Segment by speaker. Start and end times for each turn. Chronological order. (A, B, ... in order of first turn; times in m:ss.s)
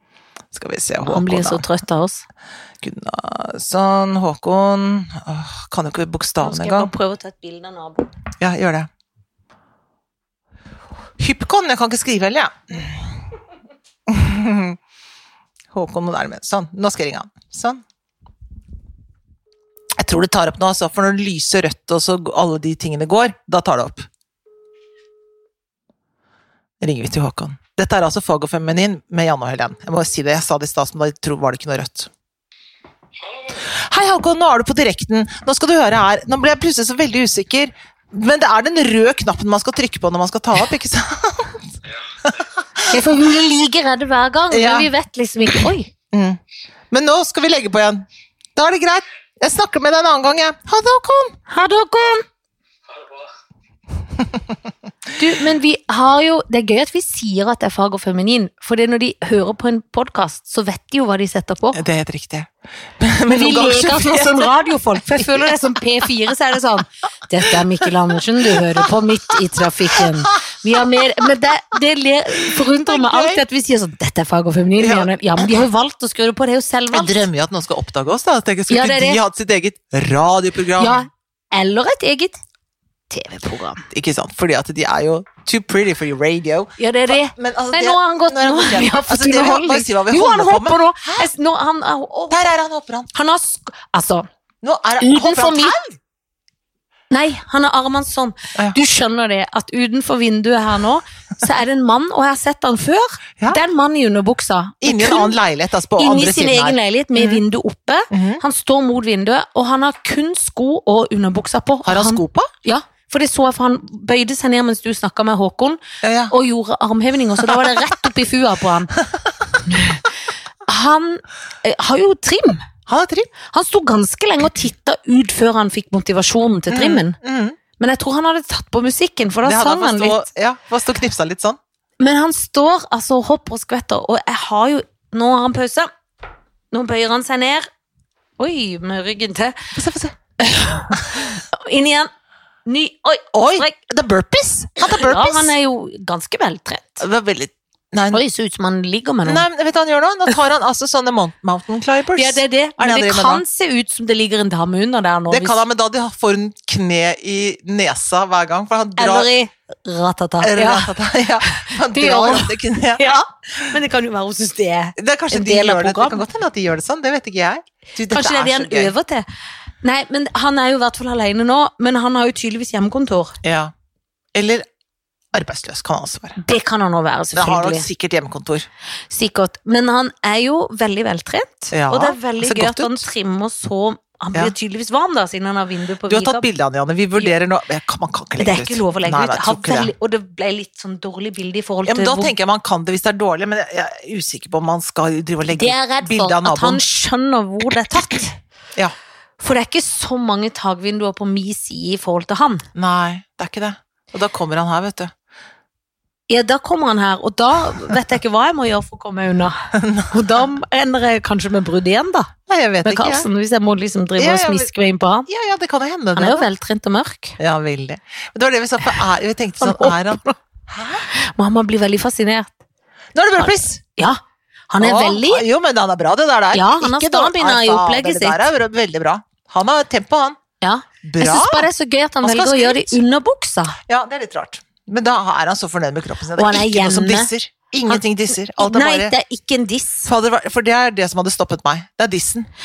0:00.5-0:01.6 A
0:01.0-0:02.3 B
0:02.8-0:06.9 A
0:06.4-0:08.1 B
0:08.4-0:08.9 A
0:11.2-0:13.2 A
0:14.1-0:14.8 A
0:15.7-0:17.8 A
0:20.0-0:24.1 A
0:26.8-0:32.1 A
0:33.5-0:41.6 A
0:42.2-0:43.0 A
0:42.9-0:45.9 B
0:44.5-0:44.9 A
0:45.5-0:48.0 A
0:48.6-0:51.4 A
0:51.5-0:52.2 B
0:55.2-1:01.8 B
1:01.7-1:05.6 A
1:03.3-1:17.3 B
1:07.4-1:08.9 A
1:09.9-1:11.3 A
1:12.4-1:13.4 A
1:14.8-1:15.7 A
1:16.9-1:21.0 A
1:18.7-1:19.2 B
1:20.8-1:22.4 B
1:23.1-1:23.9 B
1:23.9-1:31.3 A
1:26.8-1:32.4 B
1:32.3-1:33.1 A
1:33.1-1:34.3 B
1:34.6-1:36.0 A
1:35.0-1:35.8 B
1:37.1-1:45.4 B
1:44.8-1:47.4 A
1:46.0-1:59.0 B
1:48.1-1:48.4 A
1:51.8-1:52.5 A
1:56.0-1:56.3 A
1:57.4-1:58.1 A
1:59.0-1:59.6 A
1:59.6-2:00.0 B
2:00.7-2:02.7 B
2:02.9-2:03.3 A
2:03.5-2:07.2 B
2:06.7-2:07.6 A
2:07.8-2:10.2 B
2:09.4-2:11.6 A
2:12.0-2:15.9 B
2:16.7-2:17.7 B
2:18.4-2:19.6 B
2:19.8-2:20.2 A
2:20.4-2:22.1 B
2:22.7-2:23.8 B
2:23.3-2:25.5 A
2:24.9-2:27.0 B
2:27.0-2:28.2 A
2:28.1-2:29.4 B
2:29.2-2:33.4 A
2:32.2-2:35.6 B
2:35.3-2:39.3 A
2:39.0-2:40.9 B
2:40.4-2:43.8 A
2:41.5-2:46.2 B
2:45.0-2:48.9 A
2:48.1-2:49.3 B
2:49.8-2:53.4 B
2:53.4-2:53.7 A
2:54.3-2:54.7 A
2:55.3-2:56.4 A
2:56.4-2:57.9 B
2:57.3-2:58.7 A
2:59.1-3:06.5 B
3:01.7-3:03.1 A
3:06.1-3:09.9 A
3:08.4-3:12.3 B
3:11.8-3:16.8 A
3:15.5-3:18.3 B
3:17.9-3:18.2 A
3:19.4-3:22.7 B
3:22.8-3:25.1 A
3:26.3-3:32.3 B
3:29.7-3:30.4 A
3:32.5-3:33.3 A
3:32.8-3:35.3 B
3:34.2-3:34.7 A
3:35.3-3:36.5 A
3:36.2-3:37.4 B
3:37.4-3:41.1 A
3:39.6-3:40.4 B
3:41.1-3:42.6 B
3:43.1-3:43.8 A
3:43.4-3:45.4 B
3:44.8-3:50.4 A
3:46.5-3:48.4 B
3:50.6-3:53.8 B
3:51.0-3:51.7 A
3:52.2-3:53.0 A
3:53.9-3:59.1 A
3:56.4-3:57.3 B
3:57.9-4:00.1 B
4:00.0-4:02.5 A